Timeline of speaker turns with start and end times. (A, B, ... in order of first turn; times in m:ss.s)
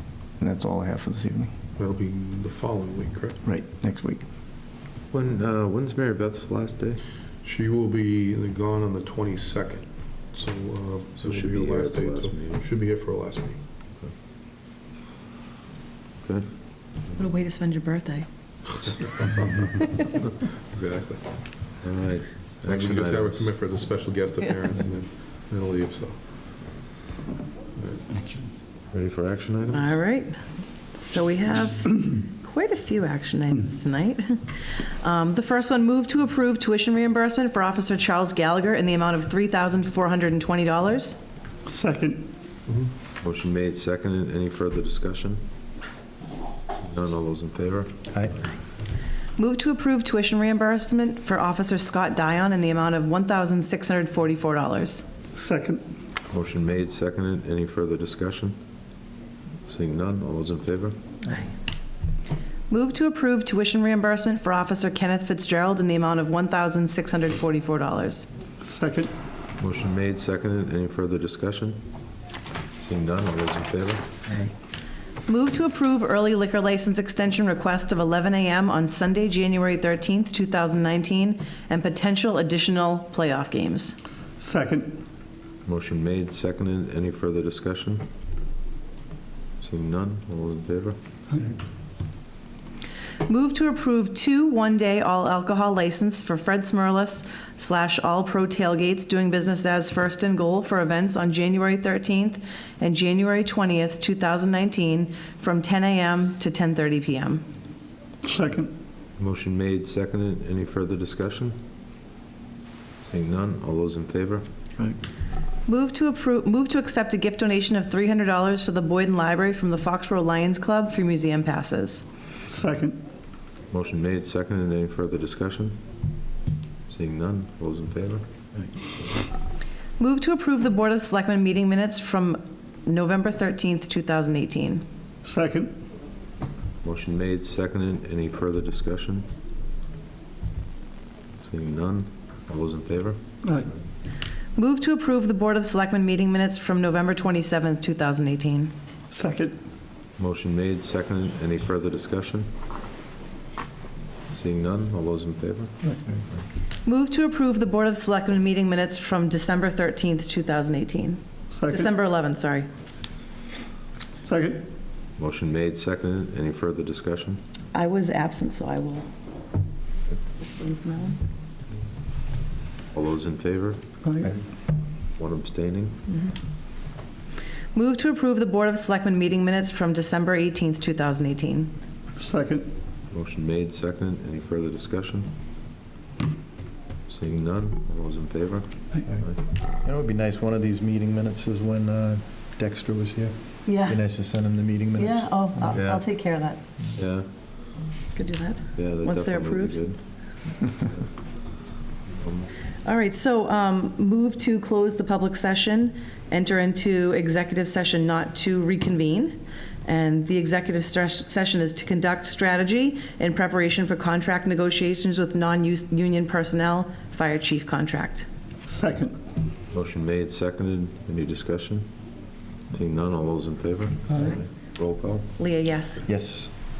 0:00.4-0:01.5 A
0:01.8-0:03.4 B
0:03.4-0:04.2 A
0:05.1-0:07.0 C
0:07.4-0:13.6 B
0:11.2-0:12.6 C
0:17.1-0:18.3 D
0:18.8-0:19.6 C
0:18.9-0:19.7 B
0:20.6-0:21.2 B
0:21.8-0:23.5 C
0:22.6-0:26.8 B
0:27.8-0:28.2 B
0:28.9-0:29.9 C
0:29.7-0:30.4 D
0:30.9-0:41.2 D
0:41.6-0:42.3 E
0:43.2-0:45.4 C
0:46.8-0:47.9 C
0:48.1-0:48.4 F
0:49.4-0:55.0 D
0:55.3-0:55.8 E
0:56.3-0:58.6 C
0:59.7-1:01.0 C
1:02.7-1:08.3 D
1:08.6-1:09.1 E
1:09.6-1:11.8 C
1:12.8-1:14.0 C
1:15.3-1:24.0 D
1:24.4-1:25.0 E
1:25.6-1:28.0 C
1:29.6-1:31.0 C
1:33.2-1:47.4 D
1:48.2-1:48.7 E
1:49.2-1:51.6 C
1:53.0-1:54.4 C
1:55.7-2:02.0 D
2:02.4-2:03.0 E
2:03.7-2:05.8 C
2:06.9-2:08.2 C
2:10.0-2:14.8 D
2:15.2-2:15.7 E
2:16.8-2:19.2 C
2:21.4-2:23.2 C
2:23.4-2:23.7 E
2:24.6-2:28.7 D
2:29.1-2:29.6 E
2:30.2-2:32.5 C
2:34.3-2:36.4 C
2:36.8-2:42.7 D
2:41.5-2:41.9 E
2:44.2-2:44.7 E
2:45.2-2:47.4 C
2:47.7-2:49.1 D
2:50.4-2:51.2 D
2:52.9-2:53.8 C
2:54.0-2:54.4 E
2:55.2-2:55.9 C
2:56.1-2:56.3 D
2:57.7-3:01.7 D
3:02.2-3:02.7 E
3:03.1-3:05.3 C
3:07.1-3:09.4 C
3:09.8-3:15.7 F
3:13.6-3:14.0 D
3:15.0-3:16.6 D
3:15.7-3:16.0 C
3:17.0-3:17.3 C
3:18.1-3:19.9 D
3:18.8-3:20.0 C
3:22.1-3:22.5 C
3:22.8-3:38.3 D
3:38.6-3:39.2 E
3:39.7-3:41.9 C
3:42.7-3:45.3 C
3:45.4-3:46.0 D
3:46.1-3:46.5 F